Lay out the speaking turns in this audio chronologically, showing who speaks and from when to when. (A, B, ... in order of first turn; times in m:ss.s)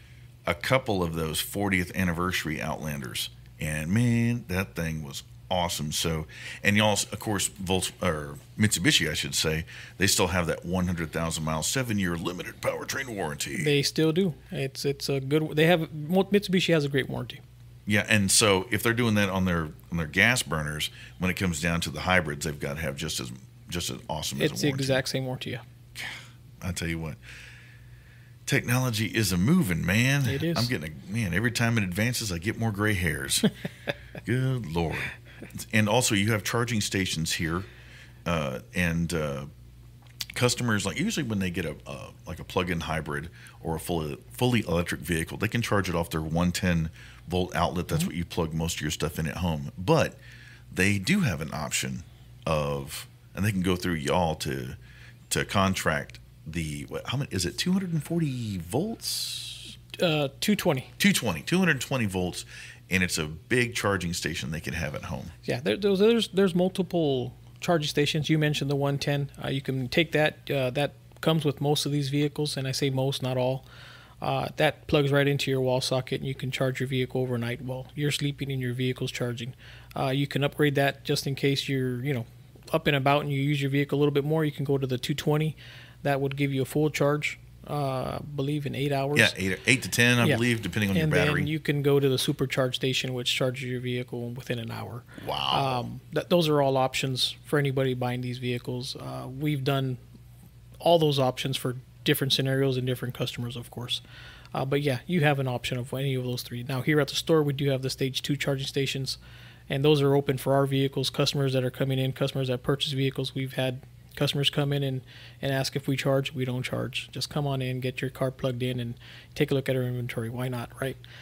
0:00.5-0:13.7 A
0:13.6-0:17.4 B
0:17.9-0:25.0 A
0:24.4-0:25.6 B
0:26.0-0:27.2 A
0:28.5-0:33.5 A
0:30.3-0:30.7 B
0:34.2-0:37.7 A
0:38.3-0:39.5 A
0:40.4-0:50.2 A
0:50.7-0:54.8 A
0:55.3-0:59.7 A
0:59.9-1:00.9 B
1:01.0-1:05.3 A
1:05.4-1:13.7 B
1:14.2-1:29.3 B
1:29.2-1:31.5 A
1:30.2-1:40.0 B
1:35.2-1:35.9 A
1:40.8-1:44.0 B
1:44.5-2:01.0 B